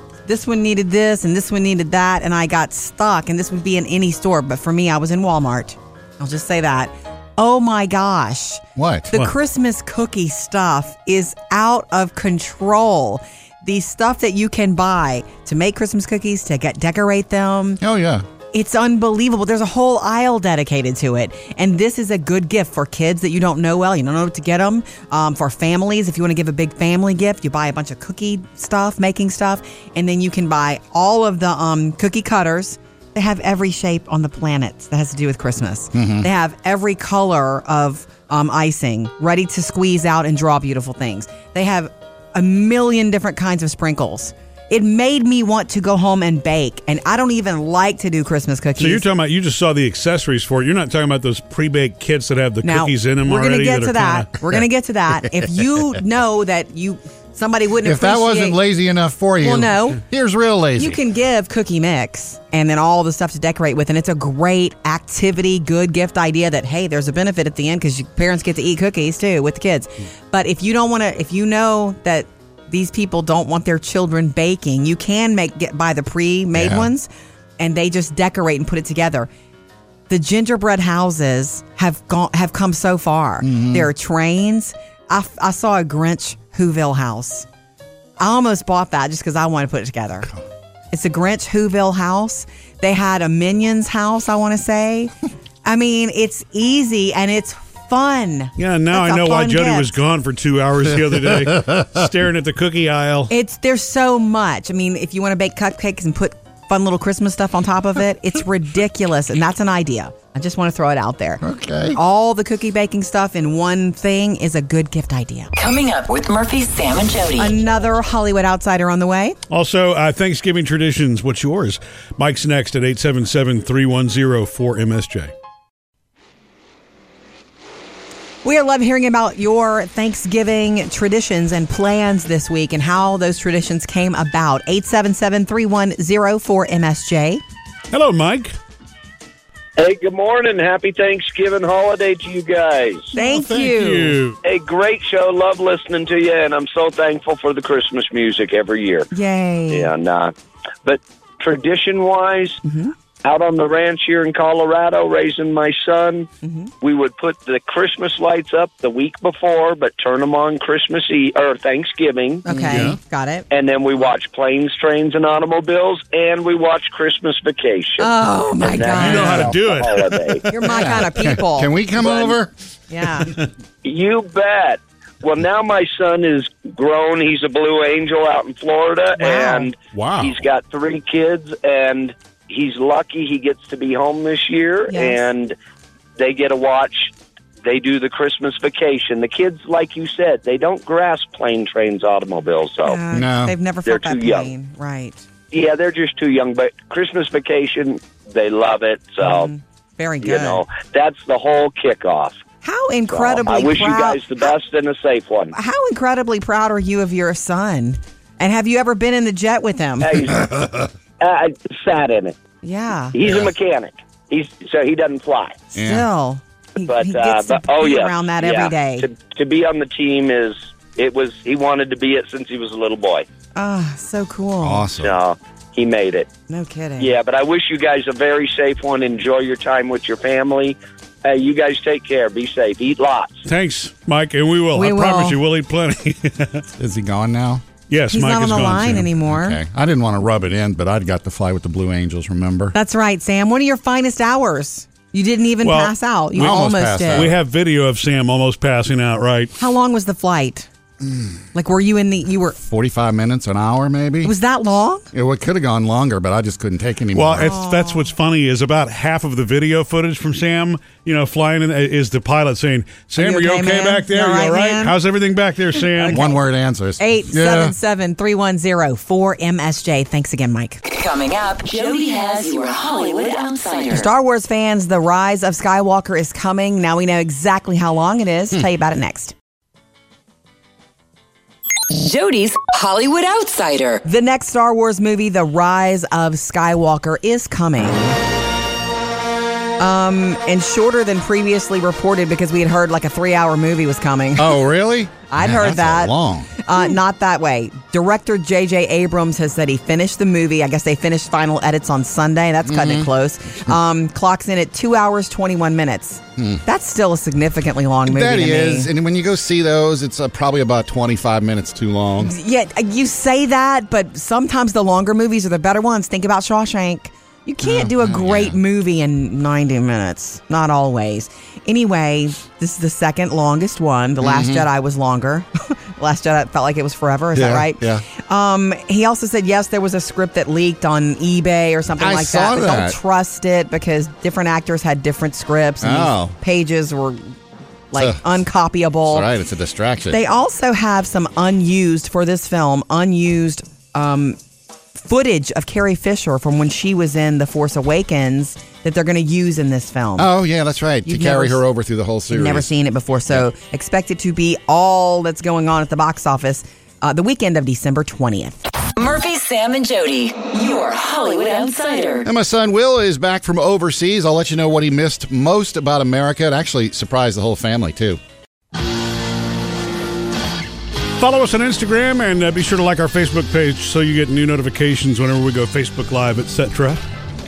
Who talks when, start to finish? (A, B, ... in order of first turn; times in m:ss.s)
0:00.3-0:17.8 A
0:08.8-0:09.1 B
0:17.8-0:18.2 B
0:18.5-0:49.0 A
0:35.9-0:36.3 B
0:48.8-0:54.3 C
0:52.6-0:58.6 A
0:57.8-1:01.0 B
0:59.4-1:00.0 A
1:00.8-1:17.1 A
1:16.5-1:16.9 B
1:17.6-1:19.3 A
1:20.1-1:27.5 A
1:23.4-1:23.9 B
1:28.2-1:30.3 A
1:30.9-1:35.1 A
1:35.6-1:40.0 A
1:38.6-1:43.3 C
1:43.3-1:55.5 A
1:51.4-1:52.0 B
1:55.6-1:57.6 D
1:57.4-1:59.4 A
1:59.5-2:05.3 C
2:08.4-2:17.4 A
2:17.9-2:18.5 C
2:19.8-2:23.1 E
2:23.1-2:24.2 A
2:23.2-2:24.4 C
2:24.4-2:29.1 E
2:29.1-2:29.9 A
2:29.7-2:32.6 E
2:32.6-2:32.9 A
2:33.2-2:36.3 E
2:36.4-2:36.7 A
2:36.8-2:42.4 E
2:42.4-2:43.5 A
2:42.5-2:43.0 B
2:42.7-2:43.0 C
2:43.5-2:50.5 E
2:48.0-2:49.5 A
2:48.9-2:50.5 C
2:50.5-2:51.7 A
2:50.6-2:52.5 B
2:52.0-2:52.3 E
2:52.9-2:53.3 A
2:53.8-3:05.6 E
2:59.2-2:59.7 A
2:59.9-3:00.4 C
3:04.9-3:05.2 A
3:06.2-3:07.1 E
3:07.6-3:13.0 E
3:12.8-3:15.2 A
3:13.1-3:13.6 B
3:13.8-3:14.5 E
3:15.5-3:19.5 E
3:19.2-3:20.6 A
3:20.2-3:22.4 E
3:22.6-3:24.2 A
3:23.1-3:25.5 E
3:25.5-3:30.3 A
3:30.0-3:30.7 E
3:31.2-3:32.4 E
3:32.6-3:33.2 A
3:33.1-3:35.6 E
3:35.7-3:39.1 A
3:35.8-3:36.1 B
3:36.9-3:43.3 E
3:43.6-3:44.9 A
3:44.6-3:45.2 B
3:45.0-3:46.3 E
3:46.5-3:47.1 A
3:47.0-3:53.4 E
3:53.5-3:56.6 C
3:54.8-3:55.4 A
3:56.8-3:57.6 B
3:57.9-3:59.1 C
3:58.1-3:59.6 A
3:59.3-4:02.8 B
4:02.7-4:07.3 A
4:05.6-4:06.6 C
4:06.4-4:07.4 B
4:07.1-4:09.5 C
4:09.6-4:10.7 A
4:11.5-4:12.6 A
4:12.6-4:14.3 B
4:14.2-4:15.1 A
4:15.1-4:17.6 B
4:17.2-4:26.2 C
4:17.4-4:18.1 A
4:23.2-4:25.0 A
4:26.0-4:26.4 A
4:26.1-4:27.8 B
4:27.0-4:30.8 A
4:30.8-4:34.1 D
4:33.9-4:39.3 A
4:41.9-4:44.0 D
4:44.0-4:48.2 A
4:49.8-4:54.6 A
4:54.4-4:56.5 B
4:55.3-5:08.9 A
5:02.7-5:03.1 B
5:06.4-5:06.6 B
5:08.1-5:12.3 B
5:12.2-5:37.3 A
5:17.6-5:18.6 B
5:24.2-5:24.7 B
5:27.4-5:28.0 B
5:32.0-5:33.0 B
5:35.8-5:36.4 B
5:37.9-5:39.3 A
5:38.0-5:38.2 B
5:39.1-5:40.2 B
5:40.1-5:44.4 A
5:45.0-5:50.3 A
5:50.2-5:52.7 B
5:51.1-5:51.6 A
5:52.3-5:58.6 A
5:59.0-6:02.3 D
6:02.2-6:08.2 B
6:11.2-6:17.0 C